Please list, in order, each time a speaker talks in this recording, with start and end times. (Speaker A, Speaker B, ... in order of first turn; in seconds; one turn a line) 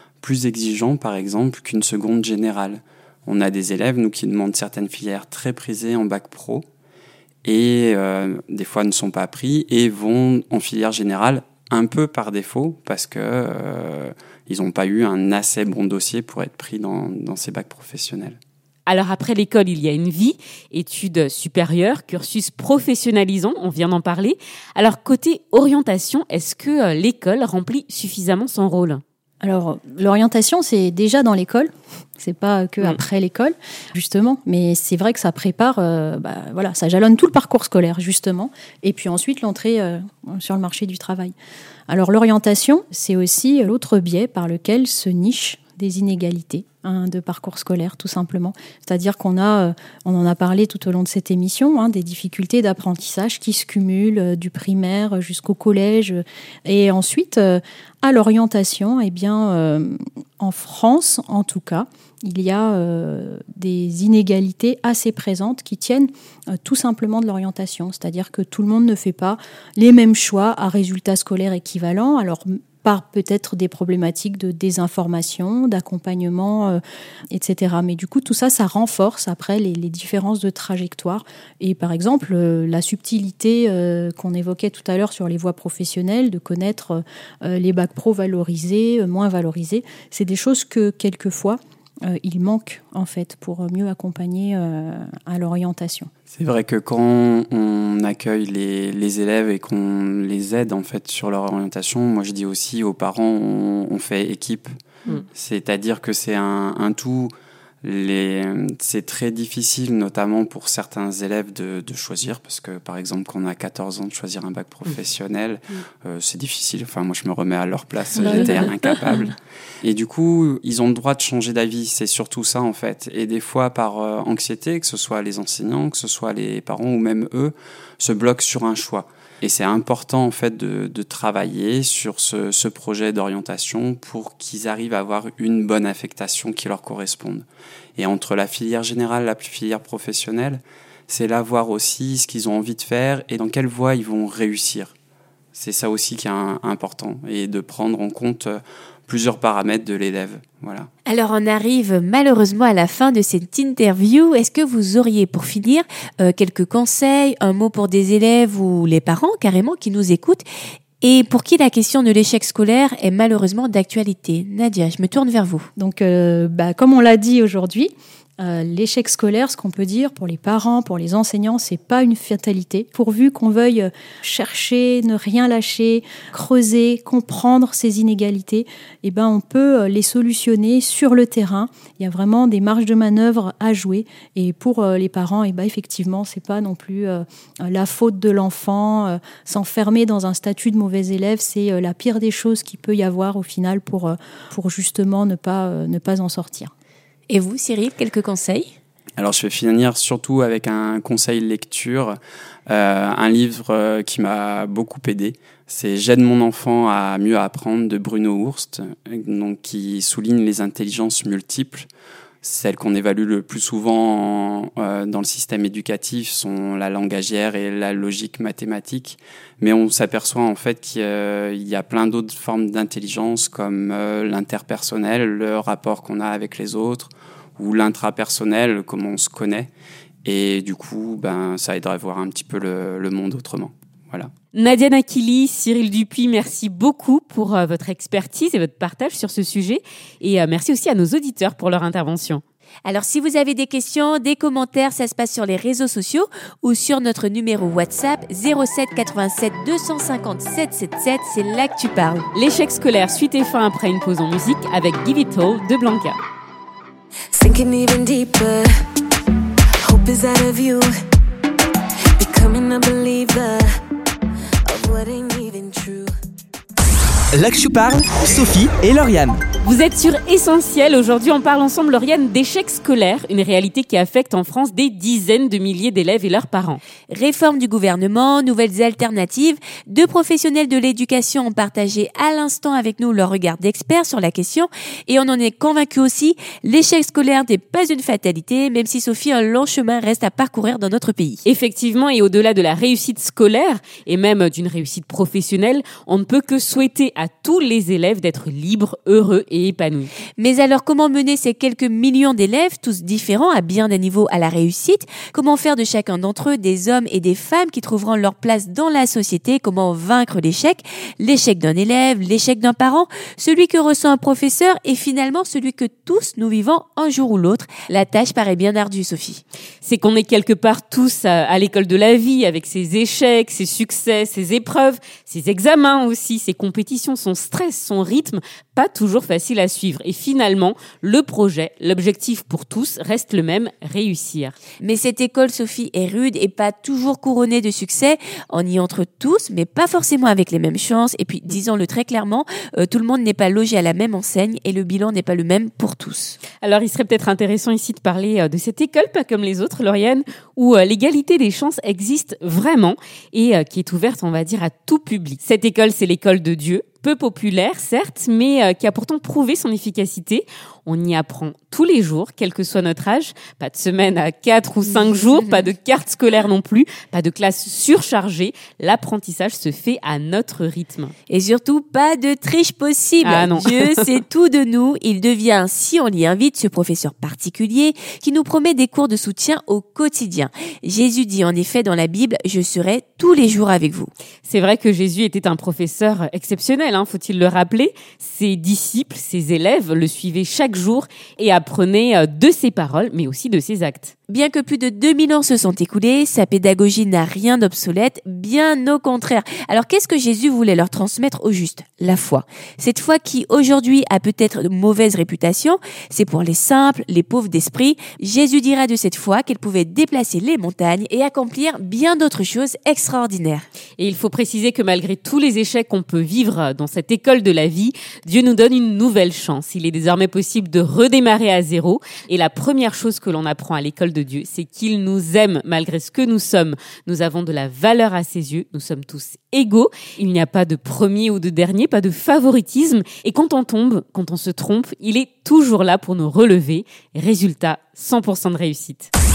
Speaker A: 0.2-6.7
Speaker A: 7.5-18.4
Speaker B: 18.9-29.0
Speaker C: 29.4-41.3
Speaker C: 41.9-96.1
Speaker A: 96.3-104.7
Speaker A: 105.3-144.9
Speaker A: 145.5-150.9
Speaker D: 151.1-160.4
Speaker D: 161.0-165.7
Speaker C: 165.8-196.7
Speaker D: 197.3-198.7
Speaker A: 199.2-211.9
Speaker A: 212.4-229.7
Speaker A: 230.2-234.3
Speaker B: 234.5-242.4
Speaker D: 242.8-252.3
Speaker B: 252.3-256.2
Speaker E: 257.3-258.7
Speaker E: 259.9-260.9
Speaker E: 262.2-263.7
Speaker E: 264.7-266.1
Speaker F: 267.3-269.4
Speaker B: 269.6-276.8
Speaker D: 277.1-291.4
Speaker B: 291.5-300.1
Speaker D: 300.4-319.4
Speaker B: 319.8-334.6
Speaker D: 334.8-346.4
Speaker B: 346.6-371.1
Speaker D: 364.8-365.7
Speaker D: 371.3-384.1
Speaker B: 373.2-374.1
Speaker B: 384.4-394.1
Speaker D: 394.3-413.6
Speaker B: 414.0-439.1